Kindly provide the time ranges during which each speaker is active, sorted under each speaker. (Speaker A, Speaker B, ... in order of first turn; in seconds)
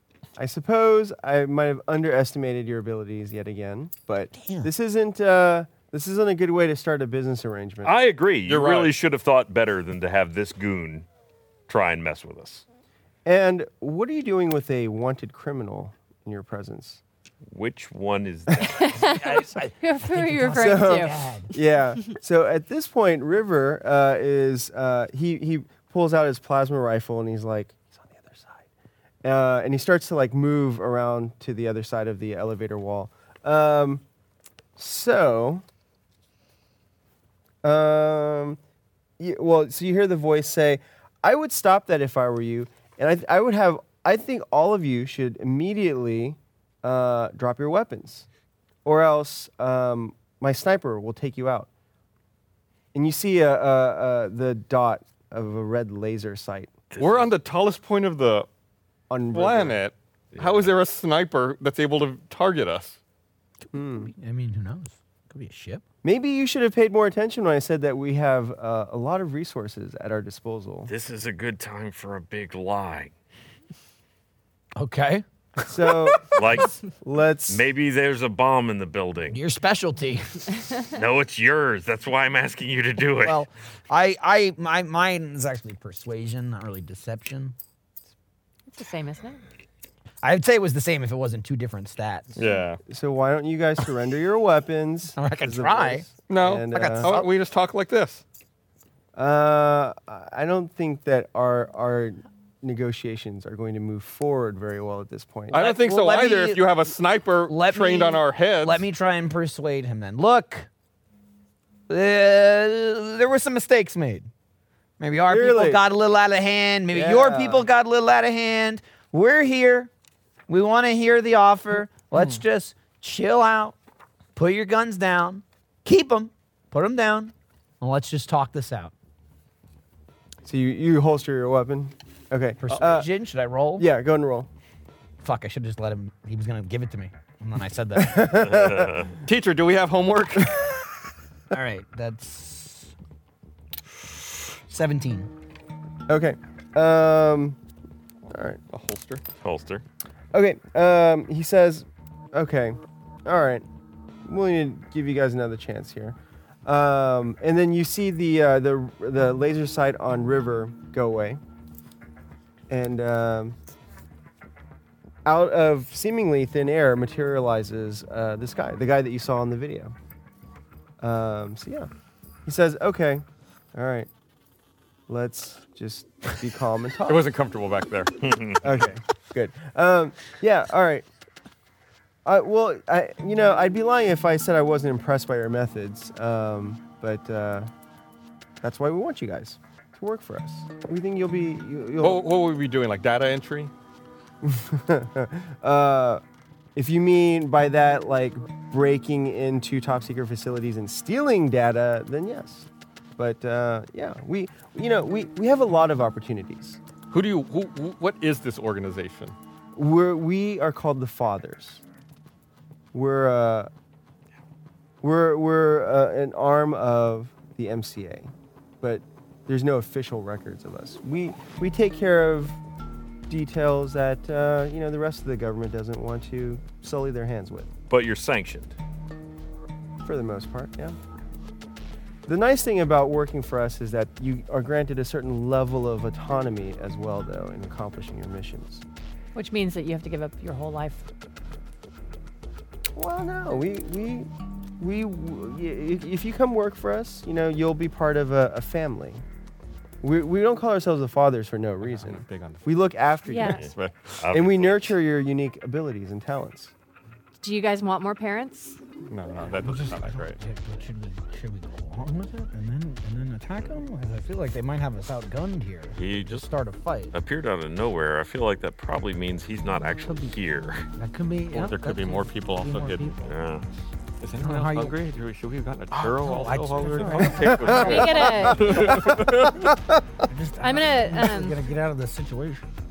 Speaker A: 0.3-7.9, 13.2-17.0, 20.5-28.6, 29.2-34.0, 34.8-35.6, 37.6-38.6, 39.2-48.3, 48.8-51.7, 52.9-56.7, 59.1-59.8, 63.7-64.1, 66.0-70.9, 75.7-76.2, 77.0-77.6, 92.9-97.2, 99.1-105.6, 115.3-115.8, 116.9-117.7, 130.4-133.1, 133.8-134.5, 137.9-139.0, 146.1-147.6, 148.3-148.6, 150.3-153.6, 154.2-161.4, 162.7-163.6, 165.2-169.9, 171.0-171.9, 172.4-173.2, 173.7-174.1, 175.1-177.3, 178.6-181.1, 182.2-187.7, 188.6-192.3, 194.4-196.2, 196.8-206.8, 209.7-211.8, 212.9-213.7, 215.0-222.6, 223.3-227.7, 230.0-231.0, 232.2-238.8, 242.9-249.2, 250.0-253.7, 254.3-256.7, 277.2-280.3
Speaker B: 4.3-4.7, 19.0-21.5, 63.7-65.8, 74.8-76.2, 79.3-80.7, 83.2-87.5, 90.2-92.4, 95.2-96.1, 96.7-97.3, 105.5-106.8, 107.5-110.7, 111.9-114.3, 115.0-119.9, 120.5-123.7, 124.3-128.9, 132.6-133.9, 135.2-138.4, 141.5-142.9, 144.7-145.3, 259.5-267.1, 270.0-270.3, 271.0-273.1, 274.4-274.9, 275.9-279.1, 280.3-282.7
Speaker C: 7.8-11.1, 11.7-12.6, 17.5-19.1, 56.9-57.3, 60.3-60.7, 70.9-73.1, 76.3-76.8, 77.5-79.4, 80.9-83.4, 138.4-139.1, 149.4-149.8, 178.2-178.7, 227.9-228.7, 253.6-254.9, 265.9-266.5, 267.1-270.9, 273.2-273.6
Speaker D: 8.5-8.9, 57.0-58.5, 59.3-63.0, 92.3-92.8, 96.3-98.2, 105.5-108.9, 139.2-140.6, 148.7-149.2, 177.1-178.1, 192.0-193.7, 207.1-209.3, 251.8-252.8, 253.6-254.2, 259.1-260.4, 271.5-273.2, 274.2-279.7
Speaker E: 18.6-21.1, 88.7-89.4, 239.3-241.0, 253.3-253.7, 257.4-258.8, 277.8-278.7, 280.6-281.6